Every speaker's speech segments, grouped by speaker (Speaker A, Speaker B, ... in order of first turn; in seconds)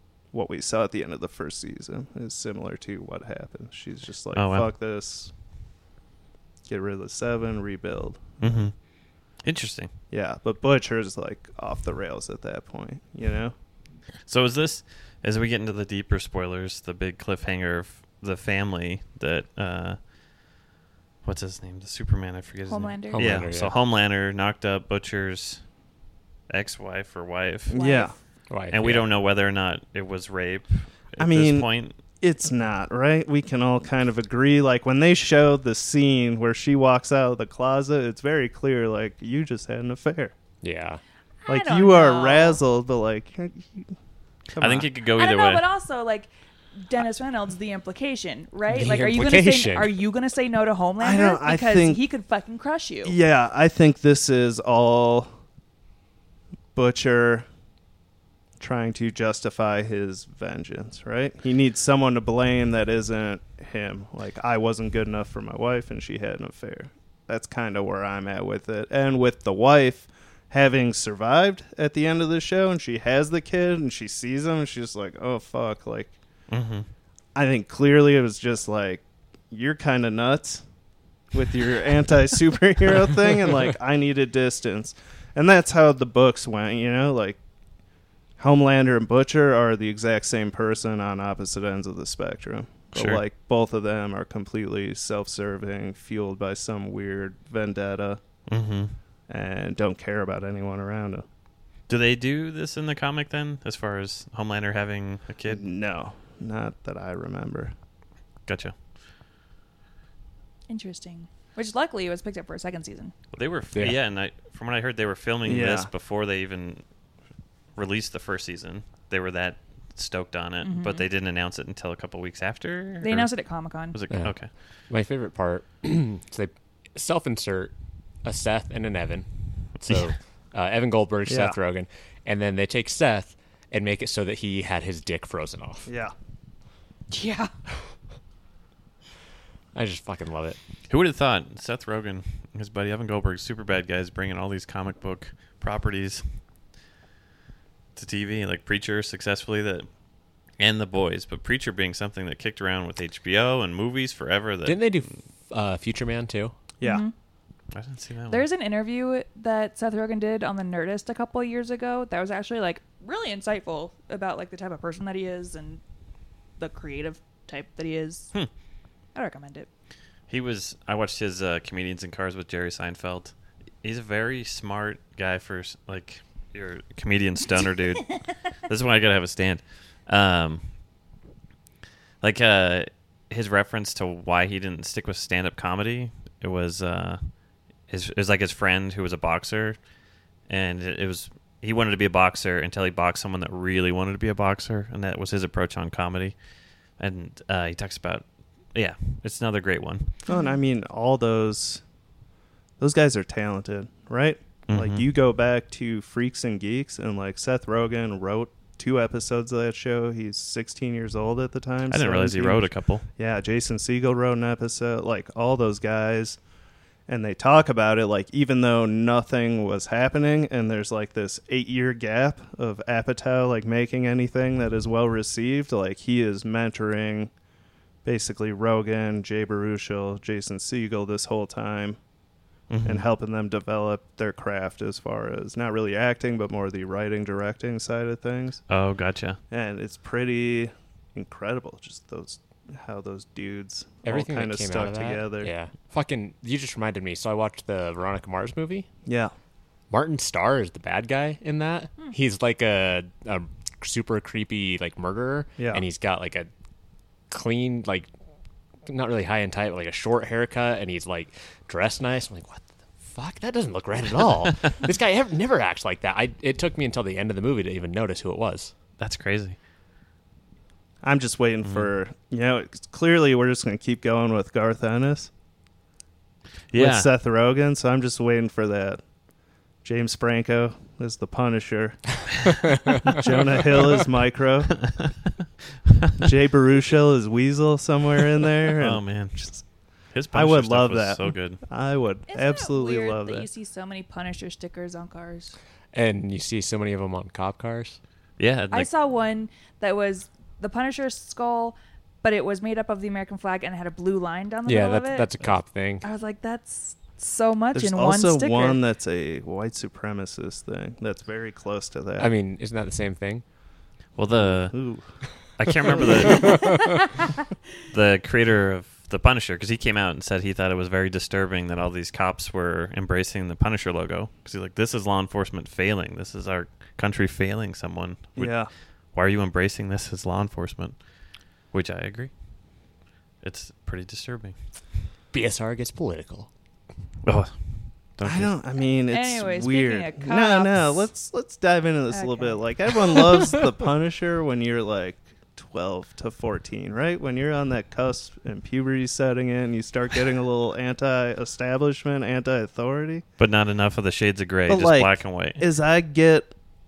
Speaker A: 0.3-5.3, 6.7-8.7, 10.1-13.5, 27.7-28.1, 31.2-40.3, 41.5-43.9, 44.5-44.9, 51.0-52.0, 53.0-55.3, 56.7-57.5, 58.6-76.2, 77.3-80.6, 81.3-87.4, 88.4-98.2, 99.3-101.2, 105.5-107.7, 115.4-115.9, 131.3-131.6, 135.8-136.1, 200.3-201.8, 202.8-216.4, 217.1-227.3, 228.0-232.0, 232.8-238.6, 239.5-245.5, 249.1-249.3, 255.6-255.8, 271.0-275.3, 276.7-279.0, 279.8-284.8, 286.2-289.6, 290.3-293.5, 307.7-312.3, 314.3-315.1, 315.9-316.4, 328.4-328.7, 338.2-353.2, 354.7-356.5
Speaker B: 4.3-4.7, 8.4-8.8, 9.4-9.9, 14.2-20.0, 21.2-25.6, 26.5-27.8, 28.7-32.0, 44.5-45.6, 76.5-76.9, 92.9-93.2, 98.5-98.9, 101.9-105.6, 108.5-108.7, 113.3-116.8, 117.7-123.3, 123.9-124.5, 140.9-146.4, 147.9-149.9, 150.6-155.2, 157.7-158.4, 170.3-180.7, 182.2-187.3, 187.9-189.8, 190.5-196.4, 197.0-200.2, 204.7-205.1, 211.9-213.0, 232.7-233.0, 238.7-239.4, 269.0-269.6, 271.6-271.9, 276.7-277.1, 284.8-285.1, 288.8-289.4, 290.1-291.6, 298.4-298.9, 314.1-314.9, 315.6-317.1, 317.9-331.1, 331.7-332.3, 333.4-334.5, 337.2-337.5, 338.1-338.5, 353.4-355.7
Speaker C: 22.7-23.3, 27.7-28.1, 41.4-42.6, 45.1-53.1, 110.7-113.1, 120.6-121.1, 123.0-124.0, 137.1-137.5, 156.8-157.1, 158.3-165.8, 166.6-168.3, 169.1-169.7, 200.3-200.6, 292.3-295.6, 298.7-305.3, 306.0-308.8, 316.4-317.2, 339.1-341.0, 342.1-343.2
Speaker D: 23.1-23.7, 28.5-29.1, 40.6-41.0, 48.7-49.9, 113.7-114.0, 124.1-124.4, 124.9-135.9, 139.7-140.6, 154.7-156.5, 244.0-248.9, 249.9-256.5, 257.3-258.1, 258.9-268.7, 295.9-298.0, 304.6-306.0, 312.2-313.4, 335.3-336.5